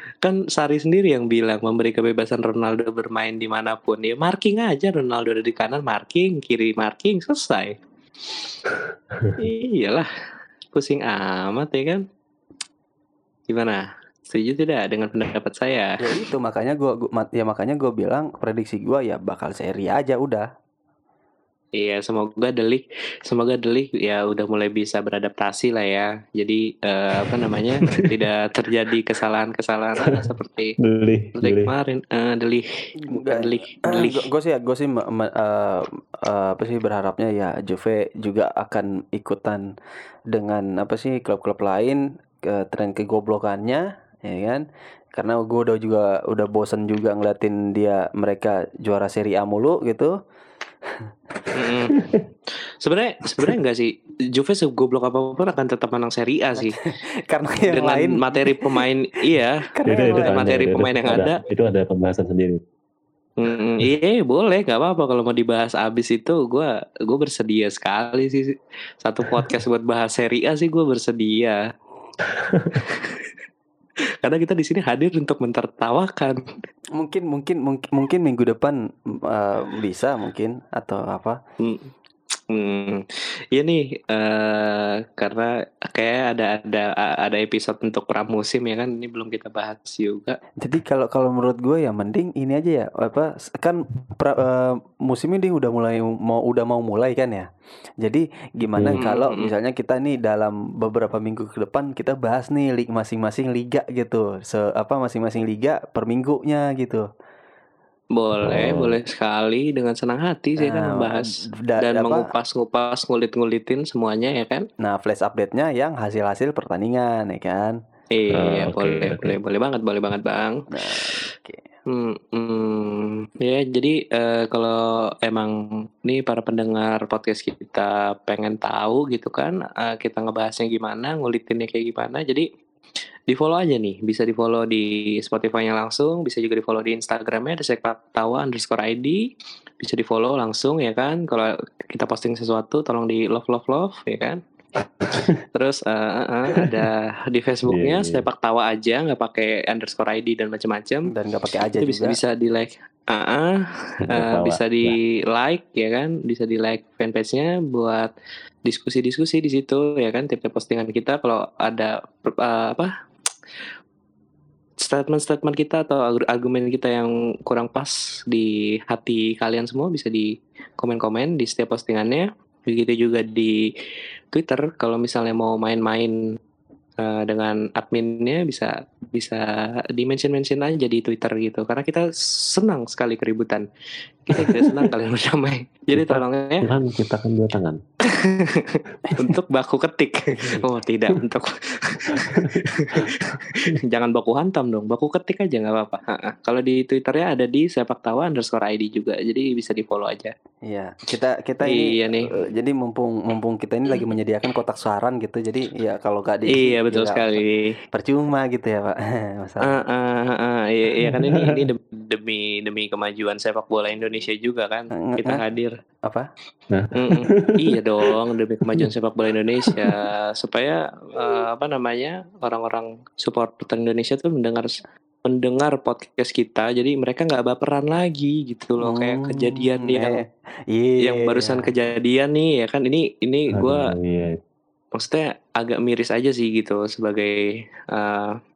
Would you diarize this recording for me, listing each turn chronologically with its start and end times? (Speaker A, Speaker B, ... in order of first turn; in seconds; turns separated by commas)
Speaker A: 0.2-7.8, Speaker A: 9.4-10.1, Speaker A: 10.7-12.0, Speaker A: 13.5-16.0, Speaker B: 16.0-20.4, Speaker A: 21.8-30.8, Speaker C: 27.6-28.3, Speaker C: 30.8-31.7, Speaker A: 31.4-34.2, Speaker B: 33.0-39.7, Speaker B: 40.3-50.1, Speaker A: 51.5-52.0, Speaker C: 51.9-52.2, Speaker A: 52.8-56.8, Speaker B: 57.3-58.8, Speaker A: 57.7-61.4, Speaker B: 59.7-60.4, Speaker C: 59.9-62.6, Speaker A: 63.4-68.5, Speaker A: 69.0-71.6, Speaker C: 69.3-69.5, Speaker C: 72.3-72.8, Speaker A: 72.8-73.3, Speaker A: 74.2-76.4, Speaker B: 77.0-81.4, Speaker A: 81.6-81.9, Speaker A: 82.5-90.4, Speaker B: 90.6-97.5, Speaker B: 98.0-107.0, Speaker C: 98.7-99.0, Speaker A: 99.0-99.5, Speaker A: 108.1-114.6, Speaker C: 108.4-109.0, Speaker B: 110.6-112.2, Speaker B: 114.8-117.8, Speaker A: 118.1-120.6, Speaker C: 118.3-119.4, Speaker B: 120.7-121.7, Speaker A: 121.9-132.4, Speaker A: 133.3-139.2, Speaker A: 139.8-144.4, Speaker C: 145.1-145.3, Speaker A: 145.5-151.1, Speaker C: 147.7-148.2, Speaker B: 151.1-152.2, Speaker A: 151.8-158.1, Speaker C: 154.0-155.0, Speaker A: 158.7-162.9, Speaker A: 164.8-173.6, Speaker A: 174.3-176.1, Speaker A: 177.0-183.6, Speaker A: 184.2-186.7, Speaker C: 184.4-184.8, Speaker C: 185.9-187.8, Speaker A: 188.1-200.3, Speaker B: 190.4-190.7, Speaker C: 192.2-193.3, Speaker B: 200.6-209.8, Speaker A: 201.6-202.3, Speaker A: 206.5-207.7, Speaker A: 209.7-215.7, Speaker C: 211.1-211.4, Speaker B: 215.0-215.4, Speaker C: 216.7-218.1, Speaker A: 217.0-230.2, Speaker C: 219.6-220.0, Speaker B: 228.8-231.7, Speaker A: 231.0-233.9, Speaker C: 233.5-234.4, Speaker A: 234.9-237.4, Speaker A: 237.9-238.3